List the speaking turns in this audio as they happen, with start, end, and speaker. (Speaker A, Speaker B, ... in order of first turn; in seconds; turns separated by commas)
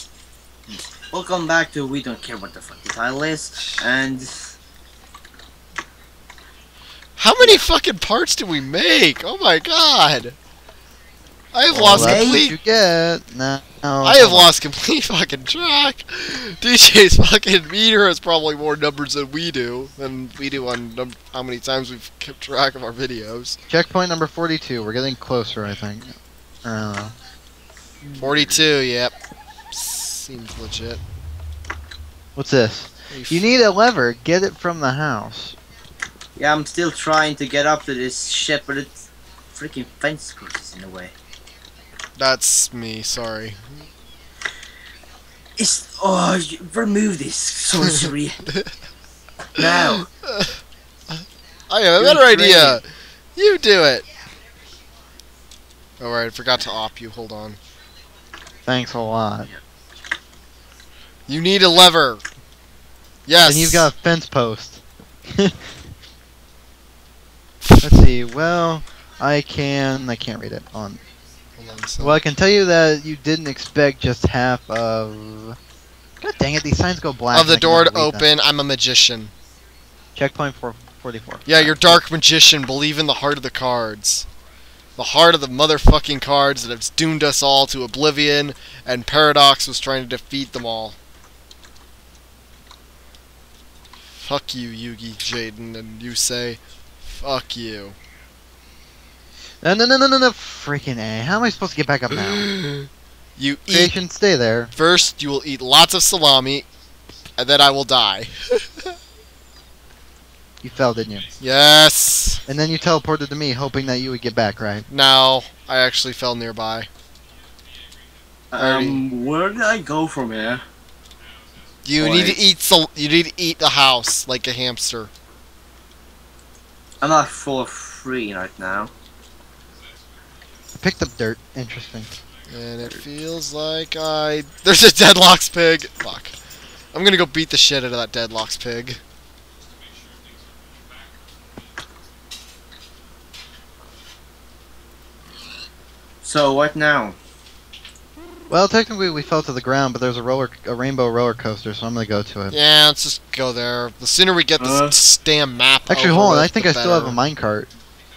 Speaker A: 0.7-4.5, Speaker B: 7.2-10.4, Speaker A: 7.4-7.6, Speaker B: 11.5-12.6, Speaker C: 11.7-14.5, Speaker A: 11.9-12.5, Speaker B: 14.0-23.6, Speaker C: 23.7-27.1, Speaker A: 28.0-28.6, Speaker B: 28.2-29.1, Speaker B: 29.7-31.0, Speaker C: 32.4-35.6, Speaker B: 33.1-33.5, Speaker A: 36.4-41.1, Speaker B: 42.2-43.8, Speaker A: 45.6-48.5, Speaker A: 49.6-50.0, Speaker B: 50.2-50.5, Speaker B: 51.2-52.9, Speaker A: 52.0-52.7, Speaker C: 52.0-52.8, Speaker B: 53.4-54.1, Speaker B: 56.0-57.6, Speaker C: 58.7-59.5, Speaker B: 61.3-62.2, Speaker B: 63.3-63.9, Speaker C: 63.4-65.7, Speaker B: 67.6-67.9, Speaker C: 67.8-71.0, Speaker B: 71.6-72.2, Speaker C: 72.0-75.6, Speaker C: 76.2-78.3, Speaker B: 77.3-79.3, Speaker C: 80.2-82.0, Speaker B: 81.5-84.3, Speaker B: 85.0-91.0, Speaker B: 94.2-98.0, Speaker C: 99.6-102.5, Speaker B: 102.2-102.9, Speaker B: 103.4-104.0, Speaker C: 103.7-104.7, Speaker B: 104.8-106.7, Speaker B: 107.4-108.9, Speaker C: 110.6-111.3, Speaker B: 111.4-112.4, Speaker C: 112.5-114.9, Speaker B: 114.9-116.9, Speaker A: 118.5-120.6, Speaker B: 118.6-119.0, Speaker B: 121.8-125.1, Speaker A: 122.0-122.4, Speaker A: 127.0-128.9, Speaker C: 130.8-132.2, Speaker B: 132.5-136.3, Speaker B: 136.9-139.0, Speaker A: 146.2-147.2, Speaker C: 148.5-152.6, Speaker B: 152.5-157.2, Speaker A: 154.6-155.0, Speaker C: 155.9-157.7